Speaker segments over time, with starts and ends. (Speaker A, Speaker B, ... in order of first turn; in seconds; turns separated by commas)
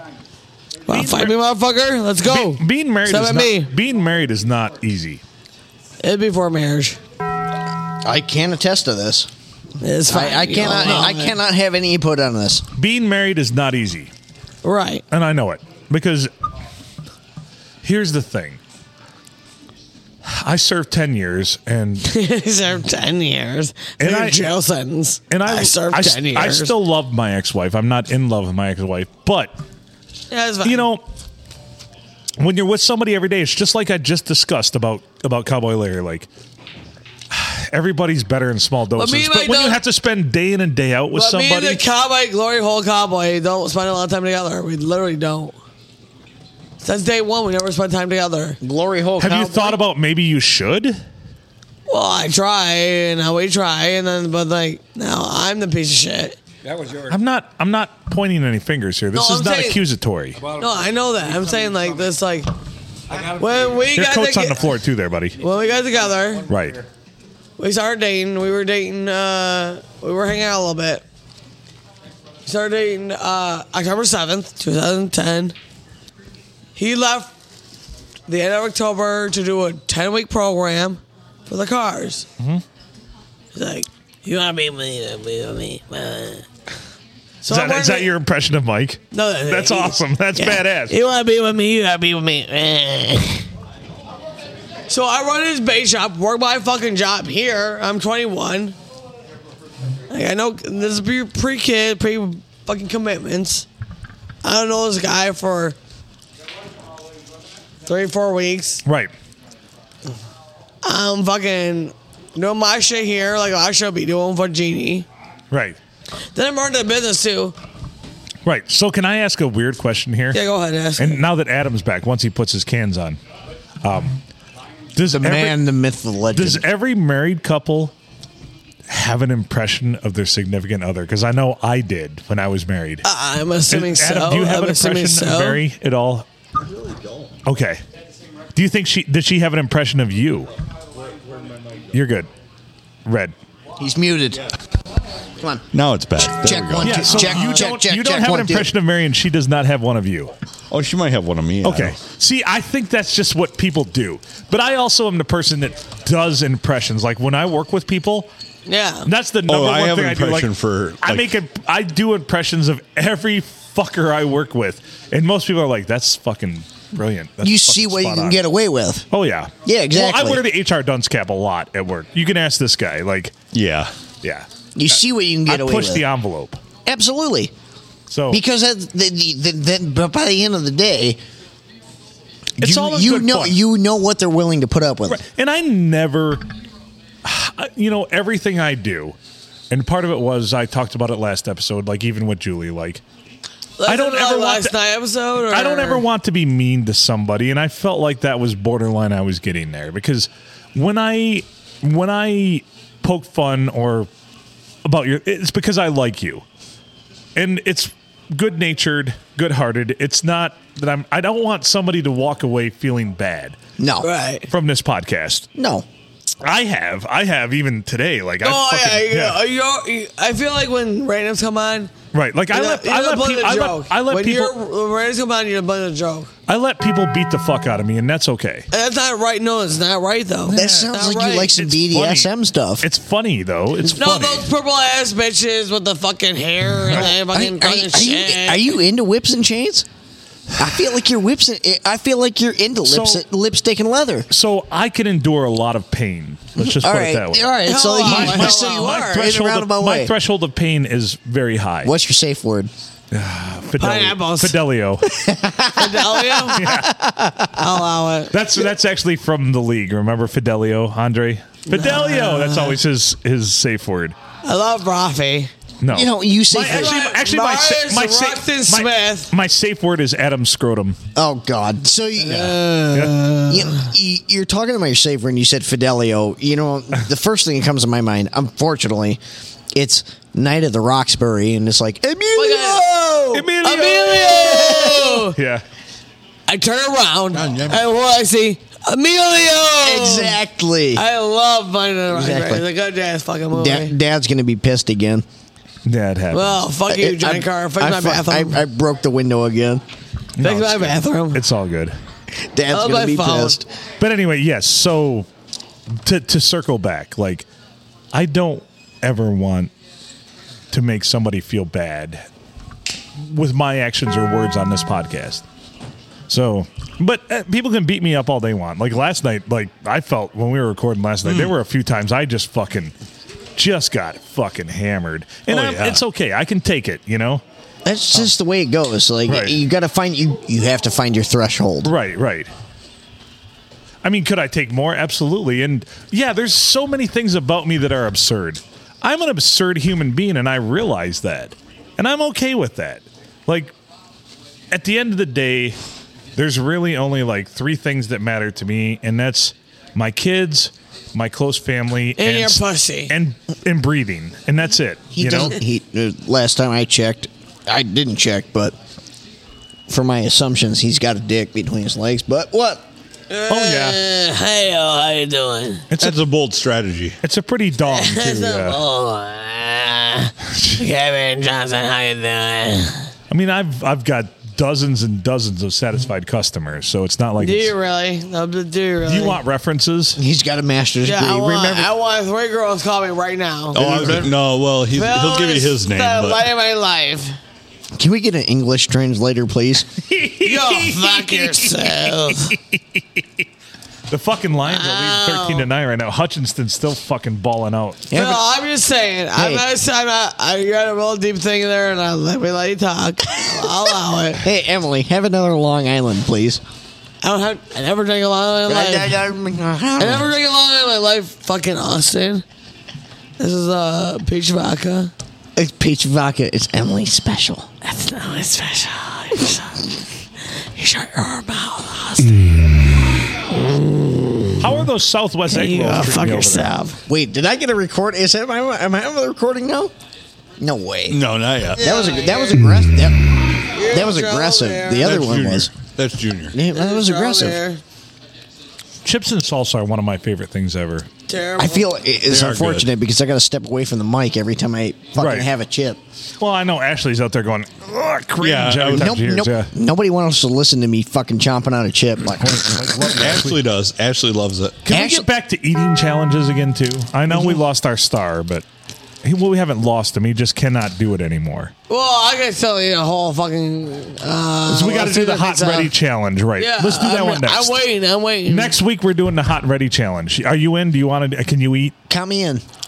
Speaker A: 0.9-3.7, Speaker B: 0.9-1.4, Speaker B: 2.2-5.2, Speaker A: 6.0-7.0, Speaker C: 8.0-9.3, Speaker A: 9.8-11.3, Speaker C: 10.1-12.6, Speaker B: 12.8-14.1, Speaker A: 14.6-15.0, Speaker B: 15.1-16.3, Speaker B: 17.8-18.6, Speaker B: 20.2-22.1, Speaker A: 22.1-26.7, Speaker B: 24.0-24.4, Speaker B: 25.3-29.5, Speaker A: 30.3-30.9, Speaker B: 30.6-31.0, Speaker B: 32.4-36.3, Speaker B: 37.3-41.8, Speaker A: 39.0-39.8, Speaker A: 41.1-45.6, Speaker A: 46.8-48.6, Speaker C: 48.6-49.8, Speaker B: 49.2-51.0, Speaker A: 51.9-56.4, Speaker D: 56.6-57.2, Speaker B: 57.1-60.4, Speaker A: 59.1-59.8, Speaker D: 60.4-62.1, Speaker A: 60.6-62.5, Speaker D: 63.1-63.9, Speaker A: 63.4-64.7, Speaker B: 63.9-65.4, Speaker A: 65.4-66.5, Speaker D: 65.9-66.8, Speaker B: 66.5-66.8, Speaker A: 67.6-71.0, Speaker A: 72.5-75.5, Speaker A: 76.8-77.3, Speaker A: 78.3-82.3, Speaker A: 83.5-86.5, Speaker A: 87.4-88.1, Speaker B: 87.5-91.0, Speaker A: 89.1-93.4, Speaker A: 94.9-98.8, Speaker A: 100.1-103.7, Speaker A: 104.4-105.8, Speaker A: 107.9-108.8, Speaker B: 108.8-109.1, Speaker A: 110.8-115.1, Speaker B: 115.5-115.8, Speaker A: 116.3-117.6, Speaker B: 118.5-120.4, Speaker A: 120.3-121.2, Speaker B: 121.0-123.2, Speaker B: 123.8-124.2, Speaker B: 125.0-125.6, Speaker C: 125.1-126.6, Speaker B: 126.3-127.9, Speaker B: 128.9-133.1, Speaker A: 133.0-135.6, Speaker B: 133.7-136.3, Speaker E: 136.9-137.3, Speaker B: 137.4-137.8, Speaker B: 138.6-140.5, Speaker B: 141.9-142.3, Speaker B: 143.1-143.3, Speaker C: 143.8-144.5, Speaker C: 145.4-145.7, Speaker E: 145.7-147.3, Speaker C: 146.4-148.7, Speaker B: 146.8-150.3, Speaker E: 150.7-152.0, Speaker B: 151.6-158.3, Speaker A: 158.7-159.1, Speaker B: 159.1-160.5, Speaker E: 159.5-161.3, Speaker B: 161.0-168.4, Speaker C: 167.4-169.1, Speaker B: 169.1-173.3, Speaker C: 169.7-170.4, Speaker E: 173.5-173.9, Speaker B: 174.2-176.6, Speaker C: 174.8-176.0, Speaker C: 176.9-177.5, Speaker B: 178.1-178.4, Speaker C: 178.3-181.2, Speaker B: 182.6-183.6, Speaker C: 182.6-185.2, Speaker B: 185.1-186.4, Speaker B: 187.2-189.2, Speaker B: 189.7-193.0, Speaker A: 193.8-196.0, Speaker B: 193.9-194.8, Speaker B: 195.5-204.1, Speaker B: 204.8-206.4, Speaker B: 207.4-213.6, Speaker C: 213.8-214.1, Speaker A: 214.0-214.5, Speaker B: 214.5-215.5, Speaker C: 215.6-215.8, Speaker B: 216.4-219.4, Speaker A: 218.4-221.9, Speaker B: 222.1-224.5, Speaker A: 222.5-226.3, Speaker B: 226.5-228.7, Speaker A: 228.7-231.5, Speaker B: 230.5-234.5, Speaker C: 230.5-232.9, Speaker A: 233.9-238.7, Speaker C: 236.9-239.9, Speaker C: 240.6-244.3, Speaker B: 242.8-243.2, Speaker B: 244.3-247.5, Speaker C: 246.6-250.1, Speaker A: 247.7-249.3, Speaker B: 248.0-251.9, Speaker C: 251.8-252.7, Speaker B: 253.1-255.1, Speaker A: 253.8-254.6, Speaker C: 255.1-257.5, Speaker A: 255.8-256.6, Speaker B: 256.6-256.9, Speaker A: 257.6-258.3, Speaker B: 258.3-264.2, Speaker A: 261.7-262.8, Speaker A: 264.4-265.5, Speaker B: 265.8-271.0, Speaker C: 265.9-267.0, Speaker A: 266.7-269.3, Speaker C: 271.2-279.2, Speaker A: 272.2-273.9, Speaker B: 272.9-273.2, Speaker C: 279.8-283.4, Speaker A: 282.4-285.4, Speaker B: 283.3-284.8, Speaker C: 284.4-285.2, Speaker B: 285.3-285.6, Speaker A: 286.5-290.4, Speaker E: 287.4-287.8, Speaker C: 289.8-291.0, Speaker A: 290.9-293.9, Speaker C: 292.1-292.6, Speaker C: 293.5-295.2, Speaker B: 295.9-296.6, Speaker A: 296.3-298.6, Speaker C: 296.9-299.8, Speaker B: 300.4-301.9, Speaker A: 300.4-301.4, Speaker C: 302.4-303.7, Speaker A: 302.7-303.6, Speaker B: 304.0-305.3, Speaker B: 305.9-307.5, Speaker B: 308.1-309.7, Speaker B: 310.7-312.2, Speaker B: 313.2-315.4, Speaker B: 316.3-322.9, Speaker E: 321.3-321.5, Speaker B: 323.6-327.4, Speaker E: 325.5-326.0, Speaker C: 327.9-331.9, Speaker B: 329.3-329.6, Speaker B: 331.8-332.5, Speaker B: 334.0-343.7, Speaker B: 344.7-345.8, Speaker B: 346.4-355.6, Speaker A: 352.2-353.1, Speaker C: 355.1-358.8, Speaker C: 359.9-362.8, Speaker A: 363.3-365.8, Speaker B: 363.5-364.0, Speaker B: 365.9-366.2, Speaker E: 366.0-367.2, Speaker B: 367.2-368.8, Speaker A: 367.9-373.1, Speaker B: 370.5-370.8, Speaker B: 373.3-377.7, Speaker A: 377.4-379.4, Speaker B: 379.1-380.2, Speaker C: 380.2-381.9, Speaker A: 381.0-384.2, Speaker E: 383.7-386.5, Speaker A: 384.9-387.4, Speaker C: 388.0-389.9, Speaker B: 390.1-393.2, Speaker A: 390.4-392.6, Speaker B: 394.1-398.1, Speaker A: 394.7-395.7, Speaker C: 398.1-398.4, Speaker A: 398.1-404.4, Speaker C: 399.4-399.6, Speaker C: 404.4-406.6, Speaker A: 407.2-409.2, Speaker C: 408.7-410.3, Speaker A: 410.0-412.4, Speaker A: 413.4-415.1, Speaker C: 415.6-417.7, Speaker A: 417.8-420.0, Speaker A: 420.6-422.7, Speaker A: 423.5-424.7, Speaker B: 424.6-426.7, Speaker A: 425.5-427.0, Speaker C: 427.1-429.9, Speaker C: 430.6-431.2, Speaker E: 431.1-431.8, Speaker C: 431.8-433.2, Speaker A: 431.8-432.6, Speaker A: 433.7-435.1, Speaker C: 433.8-435.7, Speaker E: 435.0-436.6, Speaker C: 436.5-437.6, Speaker A: 436.7-437.8, Speaker B: 439.1-441.1, Speaker A: 441.3-441.9, Speaker C: 441.6-446.0, Speaker E: 442.3-442.9, Speaker B: 445.2-445.5, Speaker B: 446.4-449.7, Speaker E: 448.4-449.1, Speaker C: 448.9-453.0, Speaker B: 452.4-453.6, Speaker E: 453.2-454.8, Speaker B: 454.9-458.6, Speaker C: 454.9-455.3, Speaker B: 459.2-461.7, Speaker A: 461.9-465.9, Speaker B: 464.7-467.8, Speaker A: 466.6-468.7, Speaker B: 468.5-471.9, Speaker C: 472.1-472.6